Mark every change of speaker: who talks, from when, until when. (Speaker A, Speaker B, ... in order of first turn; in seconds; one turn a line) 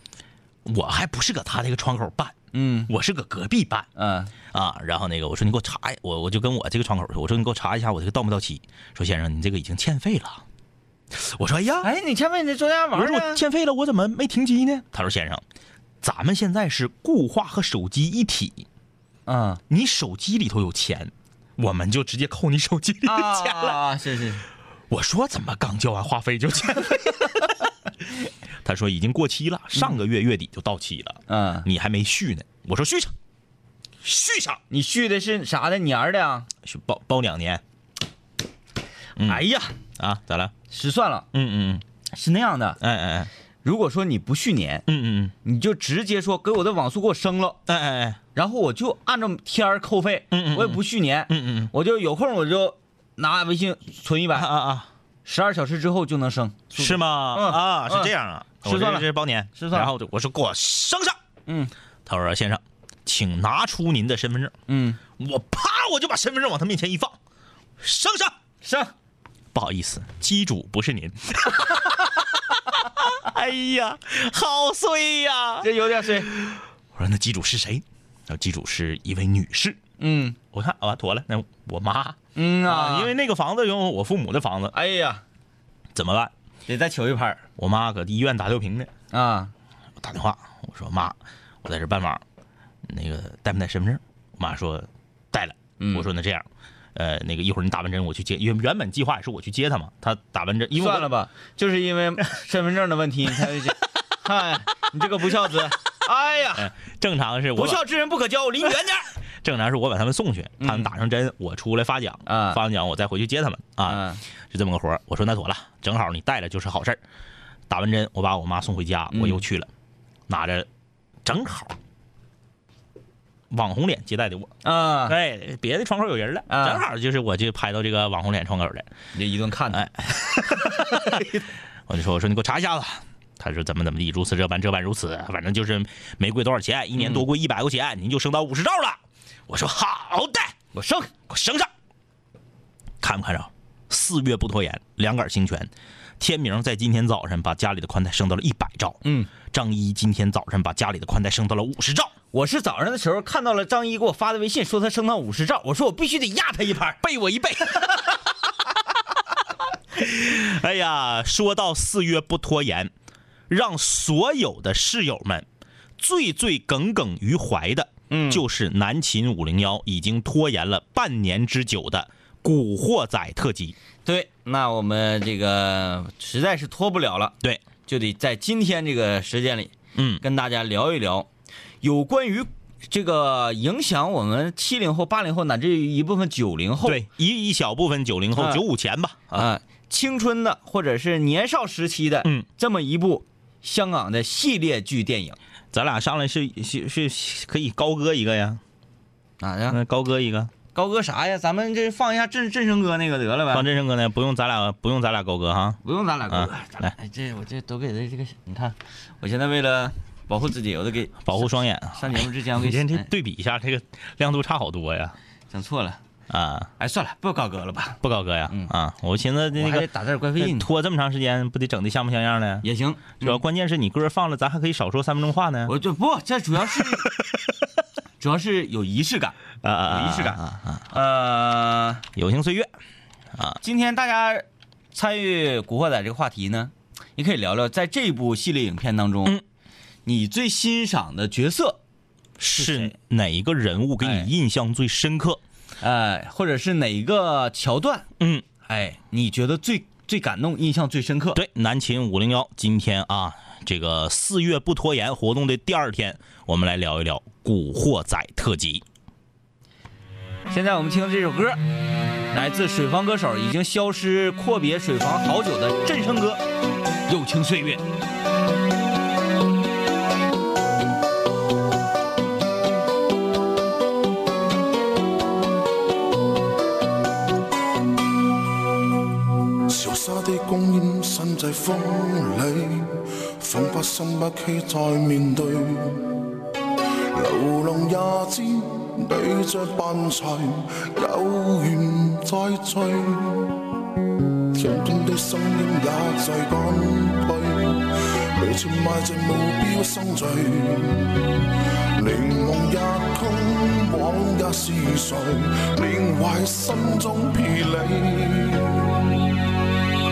Speaker A: 0.7-2.3
Speaker B: 2.5-2.9
Speaker A: 2.9-3.9
Speaker B: 4.0-4.3
Speaker A: 4.5-10.4
Speaker A: 11.1-11.9
Speaker B: 11.8-13.4
Speaker A: 12.9-15.4
Speaker A: 16.0-18.6
Speaker B: 19.3-19.6
Speaker A: 19.7-23.8
Speaker B: 23.1-24.4
Speaker A: 24.9-27.5
Speaker A: 28.6-33.1
Speaker B: 31.3-31.7
Speaker A: 34.0-34.6
Speaker B: 34.7-36.5
Speaker A: 36.6-37.6
Speaker A: 39.2-39.4
Speaker B: 39.2-39.7
Speaker A: 40.0-40.5
Speaker B: 40.7-41.3
Speaker A: 41.3-41.8
Speaker B: 42.1-42.8
Speaker A: 42.8-43.3
Speaker B: 43.6-44.9
Speaker A: 44.9-45.3
Speaker B: 45.4-47.6
Speaker A: 47.7-48.2
Speaker B: 48.4-54.5
Speaker A: 50.3-51.7
Speaker A: 54.4-54.9
Speaker B: 55.3-59.9
Speaker A: 56.8-61.2
Speaker B: 61.5-61.7
Speaker A: 62.1-64.5
Speaker B: 64.7-65.0
Speaker A: 65.2-67.2
Speaker A: 67.8-68.3
Speaker B: 68.6-68.9
Speaker A: 69.5-79.8
Speaker B: 75.6-76.3
Speaker B: 80.0-80.4
Speaker A: 80.5-84.7
Speaker B: 82.4-83.1
Speaker B: 84.7-85.2
Speaker A: 86.0-86.3
Speaker B: 86.7-87.4
Speaker A: 87.6-88.9
Speaker B: 89.1-89.5
Speaker A: 90.0-92.2
Speaker A: 92.9-101.1
Speaker B: 95.8-96.1
Speaker B: 100.8-106.7
Speaker A: 106.5-107.8
Speaker B: 107.5-109.1
Speaker A: 109.4-117.0
Speaker B: 110.6-110.9
Speaker B: 112.3-112.6
Speaker B: 113.8-114.2
Speaker A: 117.7-119.7
Speaker B: 119.1-119.4
Speaker A: 120.3-120.7
Speaker A: 121.2-121.8
Speaker A: 123.5-124.5
Speaker B: 124.6-125.2
Speaker A: 125.0-128.9
Speaker B: 126.5-126.8
Speaker B: 129.2-131.3
Speaker A: 129.7-131.4
Speaker A: 131.9-140.6
Speaker B: 137.0-137.2
Speaker B: 140.7-141.1
Speaker A: 141.3-141.7
Speaker A: 143.0-152.1
Speaker B: 149.0-149.3
Speaker B: 152.3-157.0
Speaker A: 157.0-158.2
Speaker A: 159.9-162.9
Speaker A: 163.5-165.5
Speaker A: 166.0-173.8
Speaker B: 168.1-168.4
Speaker B: 174.1-177.3
Speaker B: 177.9-181.3
Speaker A: 179.9-180.2
Speaker B: 181.8-187.1
Speaker A: 186.8-189.5
Speaker B: 188.3-188.6
Speaker B: 189.3-195.4
Speaker A: 195.7-198.6
Speaker B: 199.4-199.8
Speaker A: 199.7-200.5
Speaker B: 200.7-203.7
Speaker A: 203.5-206.9
Speaker B: 205.8-213.1
Speaker A: 211.2-215.2
Speaker B: 215.5-216.0
Speaker A: 216.3-216.7
Speaker B: 216.8-218.7
Speaker A: 218.0-222.7
Speaker B: 219.6-220.7
Speaker B: 222.6-223.4
Speaker A: 223.2-225.7
Speaker B: 225.7-227.1
Speaker A: 226.8-227.4
Speaker B: 228.2-232.0
Speaker A: 229.6-230.8
Speaker A: 232.2-232.7
Speaker A: 233.3-233.6
Speaker B: 233.6-239.4
Speaker B: 240.1-241.8
Speaker A: 242.4-245.4
Speaker B: 242.5-242.9
Speaker B: 244.0-244.3
Speaker B: 245.8-248.1
Speaker A: 248.2-248.4
Speaker B: 248.7-251.4
Speaker A: 251.3-258.8
Speaker B: 260.5-261.6
Speaker B: 262.3-266.4
Speaker B: 267.1-267.8
Speaker C: 279.7-286.2
Speaker C: 287.1-293.6
Speaker C: 294.5-301.3
Speaker C: 302.0-309.1